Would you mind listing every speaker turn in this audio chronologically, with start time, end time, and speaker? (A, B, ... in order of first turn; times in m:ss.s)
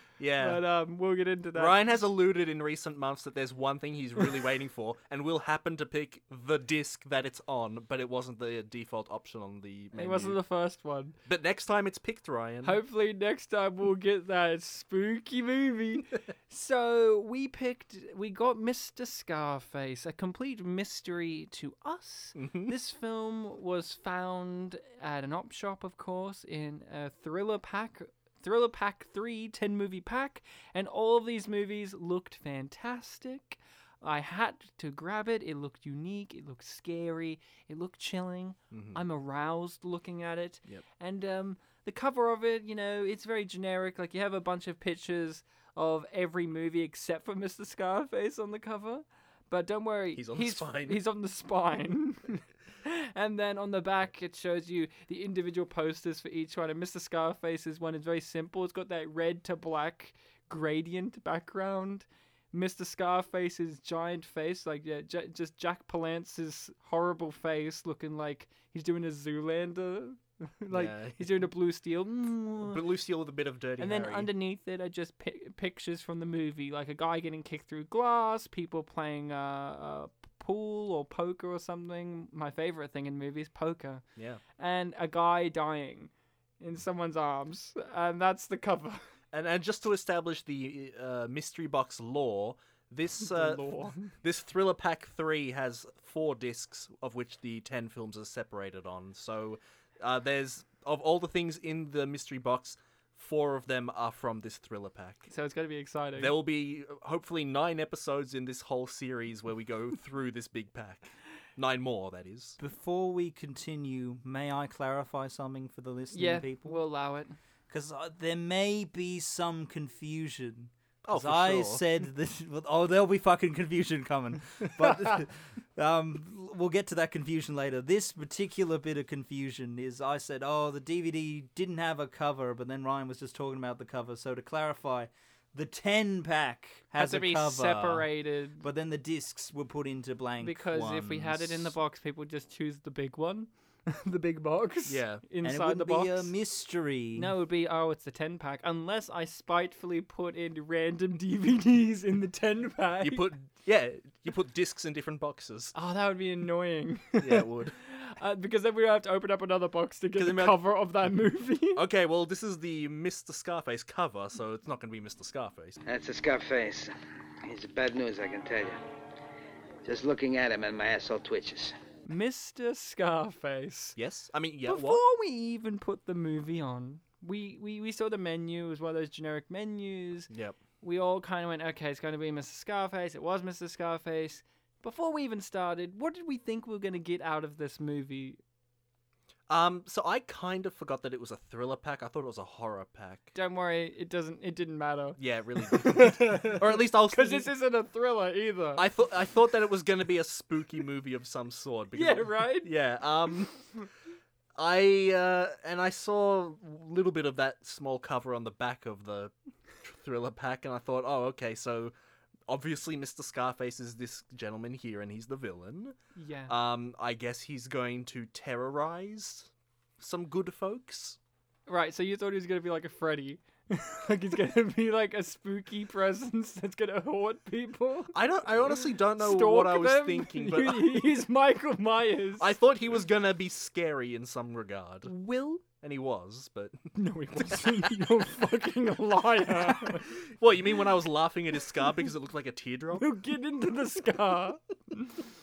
0:00.2-0:00.6 A
0:00.4-0:01.9 B
0:01.6-0:10.4 A
0:09.9-0:11.2 B
0:11.3-0:12.8 A
0:12.6-1:12.8 B
0:22.4-0:22.7 A
0:38.7-0:39.0 A
0:50.2-0:51.0 A
1:10.7-1:11.4 A
1:12.6-1:14.3 A
1:13.8-1:24.0 B
1:24.2-1:24.4 A
1:24.6-1:29.0 B
1:29.3-1:45.3 A
1:33.2-1:34.1 B
1:45.3-1:46.3 B
1:46.2-1:52.6 A
1:52.6-1:56.8 C
1:56.1-1:57.4 B
1:57.7-2:18.1 C
2:01.0-2:01.8 A
2:16.9-2:18.6 B
2:18.6-2:21.8 C
2:20.4-2:26.3 B
2:24.8-2:25.2 A
2:25.4-2:27.3 C
2:27.1-2:33.3 B
2:33.0-2:35.7 A
2:35.7-2:41.8 B
2:37.2-2:37.8 A
2:40.2-2:40.6 A
2:41.8-2:45.8 A
2:45.8-2:46.9 D
2:47.4-2:48.8 D
2:49.8-2:51.7 D
2:52.1-2:54.0 B
2:54.0-2:55.0 A
2:54.6-3:00.3 B
3:00.3-3:00.6 A
3:00.8-3:08.4 B
3:09.5-3:13.3 A
3:13.3-3:18.8 B
3:15.2-3:17.5 A
3:18.8-3:23.6 A
3:21.9-3:22.7 B
3:24.6-3:31.9 A
3:32.5-3:36.0 A
3:36.2-3:36.5 B
3:36.5-3:41.2 A
3:41.7-3:48.1 B
3:48.1-3:51.1 A
3:48.8-3:52.5 B
3:52.4-3:55.1 A
3:55.0-3:55.6 B
3:55.8-3:56.8 A
3:56.9-4:00.1 B
4:00.2-4:03.1 A
4:03.0-4:05.2 B